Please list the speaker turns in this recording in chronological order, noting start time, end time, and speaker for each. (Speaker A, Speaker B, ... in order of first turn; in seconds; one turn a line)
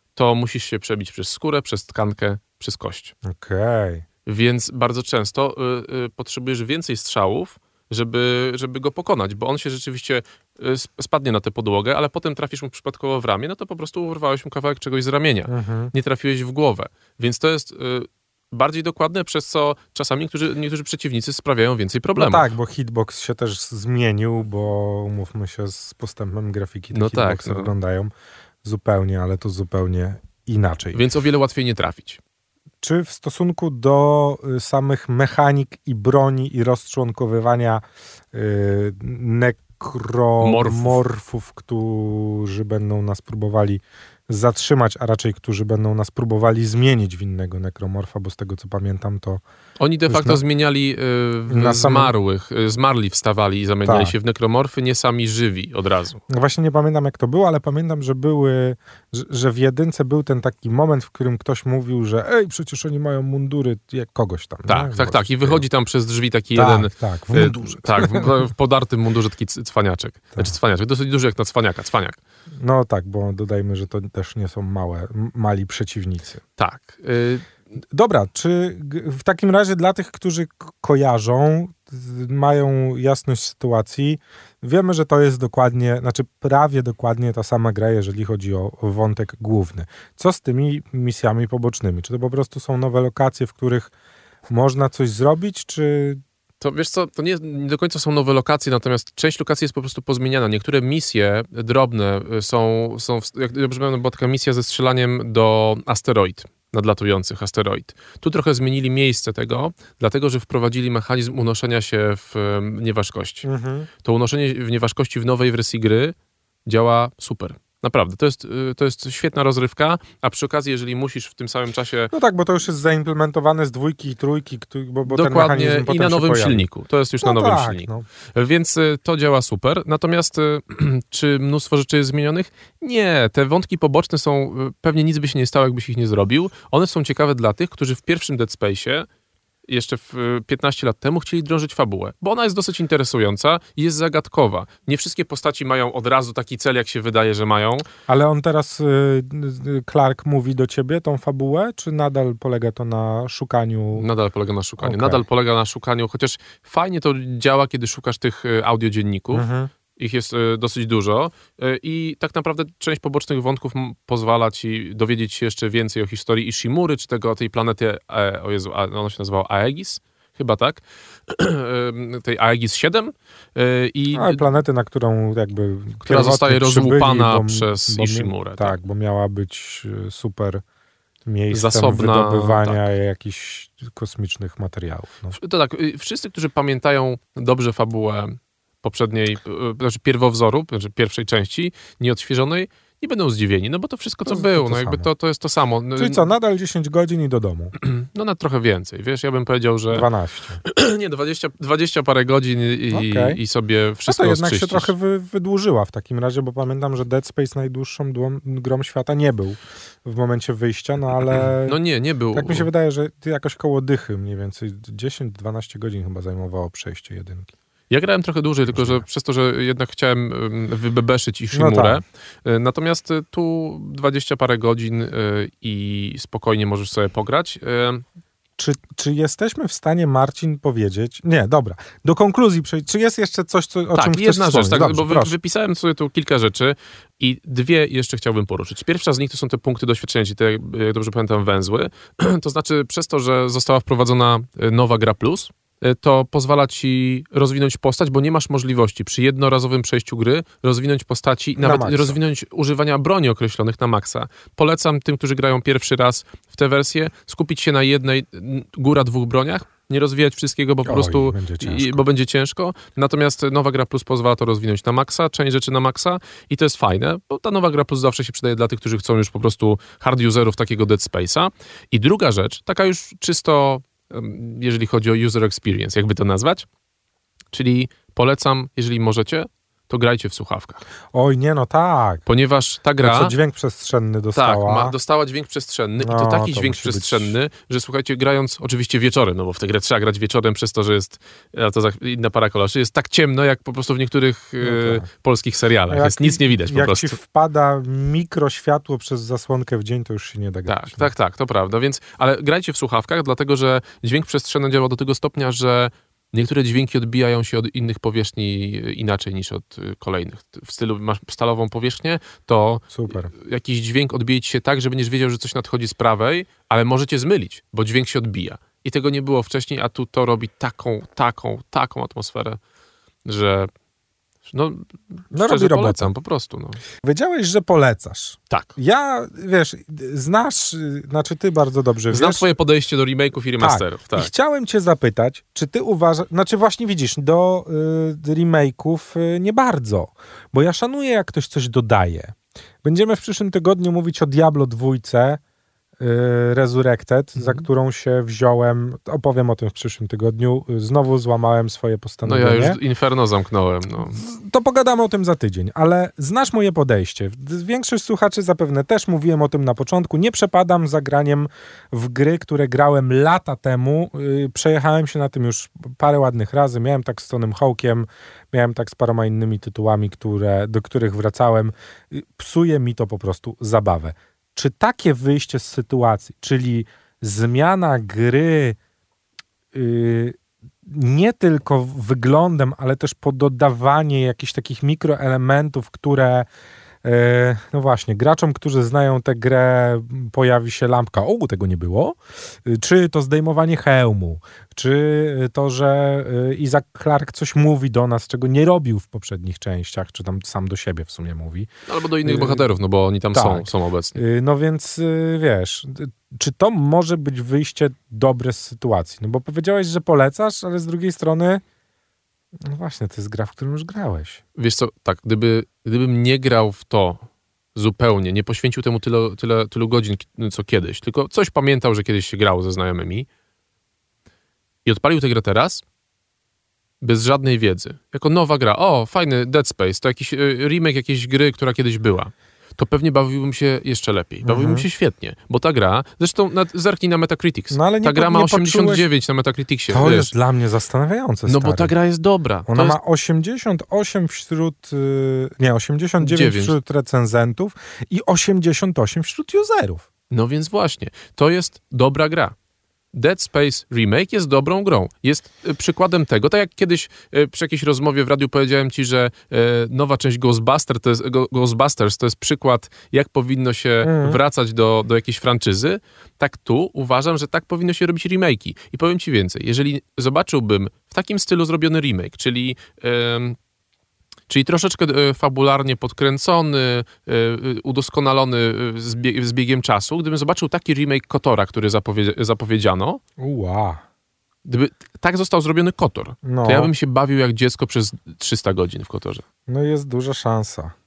Speaker A: 0.1-3.1
Speaker B: 3.3-4.0
Speaker A: 4.2-22.5
Speaker B: 15.5-15.9
Speaker B: 22.1-28.1
Speaker A: 26.9-27.7
Speaker B: 28.6-31.0
Speaker A: 30.9-32.2
Speaker B: 32.8-49.4
Speaker A: 40.4-41.0
Speaker A: 49.8-56.2
Speaker B: 50.1-50.4
Speaker B: 51.5-52.1
Speaker B: 53.9-54.1
Speaker B: 56.3-65.6
Speaker A: 64.7-72.2
Speaker B: 66.5-68.5
Speaker B: 72.6-76.4
Speaker A: 76.6-77.5
Speaker B: 77.9-93.9
Speaker B: 94.5-96.2
Speaker A: 96.6-113.5
Speaker B: 113.4-113.9
Speaker A: 114.0-116.1
Speaker A: 116.7-122.1
Speaker B: 122.1-126.7
Speaker A: 125.0-139.1
Speaker B: 127.2-128.1
Speaker A: 139.7-147.8
Speaker B: 148.1-154.1
Speaker A: 153.9-159.4
Speaker B: 154.8-155.2
Speaker B: 159.3-159.7
Speaker A: 160.0-174.6
Speaker B: 174.1-180.6
Speaker A: 176.0-178.8
Speaker B: 181.2-185.3
Speaker A: 181.5-182.8
Speaker A: 185.3-196.2
Speaker B: 194.2-195.1
Speaker B: 196.0-197.8
Speaker A: 197.8-200.1
Speaker B: 199.9-200.6
Speaker A: 200.6-204.9
Speaker B: 202.9-203.4
Speaker B: 204.0-211.8
Speaker A: 211.3-212.7
Speaker B: 212.3-217.5
Speaker A: 217.9-228.0
Speaker B: 218.7-219.0
Speaker B: 221.5-222.0
Speaker B: 228.6-235.3
Speaker A: 233.9-276.6
Speaker B: 251.6-252.2
Speaker B: 260.8-262.0
Speaker A: 277.5-280.8
Speaker B: 281.1-282.2
Speaker A: 282.2-283.3
Speaker B: 283.0-284.9
Speaker A: 284.3-297.1
Speaker B: 286.0-287.3
Speaker B: 294.6-295.1
Speaker B: 295.9-301.1
Speaker A: 300.6-322.6
Speaker B: 312.9-313.3
Speaker A: 323.2-323.7
Speaker A: 324.4-326.8
Speaker B: 325.3-326.1
Speaker B: 327.0-332.4
Speaker A: 328.5-328.7
Speaker A: 332.1-334.3
Speaker B: 333.6-345.4
Speaker B: 346.0-352.8
Speaker A: 347.4-347.6
Speaker A: 352.2-354.2
Speaker B: 354.0-378.8
Speaker B: 379.7-386.4
Speaker B: 387.0-401.7
Speaker A: 401.9-404.2
Speaker B: 402.2-402.7
Speaker B: 403.3-411.6
Speaker B: 412.6-414.4
Speaker A: 414.6-423.3
Speaker A: 424.8-425.8
Speaker A: 427.0-440.3
Speaker B: 434.4-434.9
Speaker B: 437.7-439.1
Speaker B: 439.9-441.9
Speaker A: 441.5-443.0
Speaker B: 442.7-450.1
Speaker A: 446.2-446.8
Speaker A: 450.3-452.5
Speaker A: 453.1-473.6
Speaker B: 464.0-464.4
Speaker A: 474.5-483.2
Speaker B: 483.4-484.0
Speaker A: 484.6-489.4
Speaker B: 486.4-486.9
Speaker B: 489.7-490.9